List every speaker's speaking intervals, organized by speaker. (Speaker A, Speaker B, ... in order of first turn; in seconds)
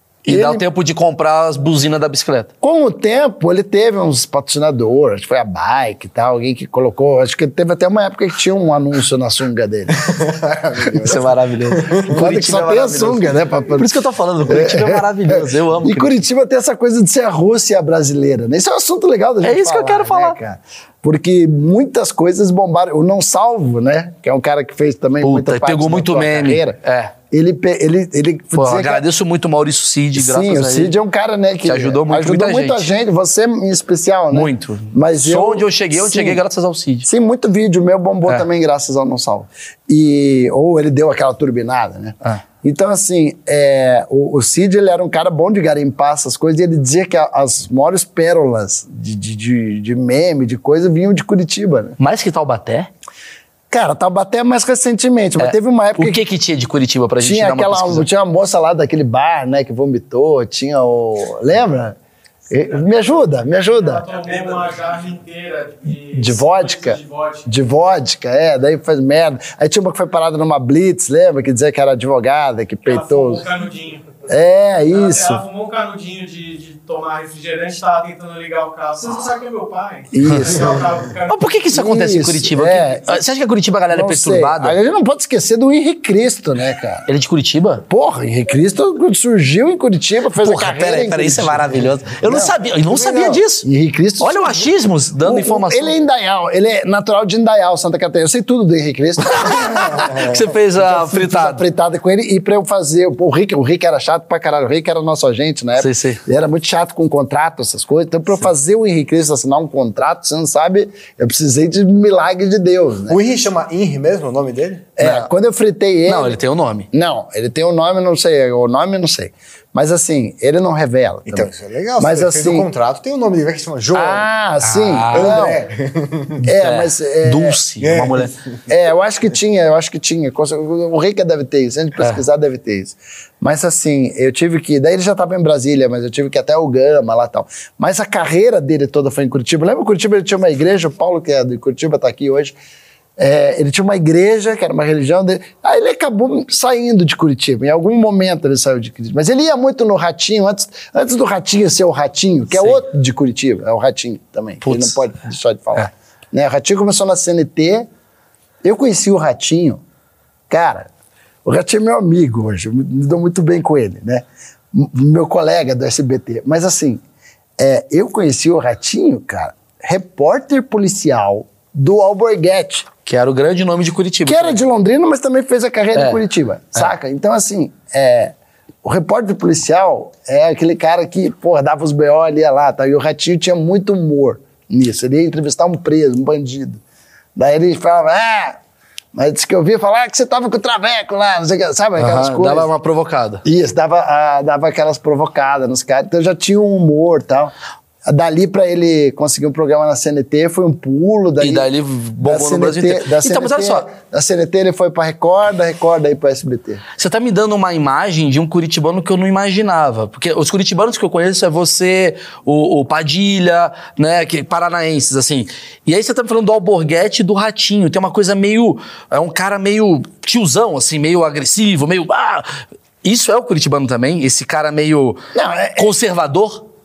Speaker A: 0.3-0.6, 2.6-10.2, 10.7-11.2, 12.1-26.8, 27.3-29.0, 30.1-36.4, 37.0-52.0, 53.7-56.2, 57.2-62.0, 62.5-64.1, 66.1-73.5, 74.3-75.4, 80.1-80.7, 81.7-83.2, 83.9-87.1, 87.9-113.2, 115.0-116.4, 116.9-122.7, 123.9-125.6, 126.4-127.6, 128.7-142.6, 143.2-157.9, 158.6-159.8, 160.5-160.9, 161.4-167.0, 167.6-172.9, 174.2-186.8, 187.4-188.6, 189.1-192.7, 193.4-197.5, 198.1-201.7, 202.2-206.8, 225.3-225.9
Speaker B: 0.3-2.5, 11.0-16.2, 19.4-20.4, 25.2-27.1, 28.6-30.9, 31.7-32.9, 34.3-37.1, 52.0-52.9, 55.4-58.1, 81.3-84.8, 87.1-87.9, 90.4-93.7, 94.2-96.0, 99.3-101.6, 105.8-106.2, 115.0-115.3, 116.1-116.9, 124.6-125.5, 126.4-128.3, 152.6-152.8, 154.6-155.0, 173.1-174.6, 175.9-176.2, 192.0-193.4, 201.4-203.9, 207.0-225.2, 225.8-226.7
Speaker C: 10.1-12.1, 113.1-114.9, 121.3-124.3, 125.1-126.3, 127.8-128.3
Speaker D: 63.7-67.5, 72.9-74.0, 74.9-81.5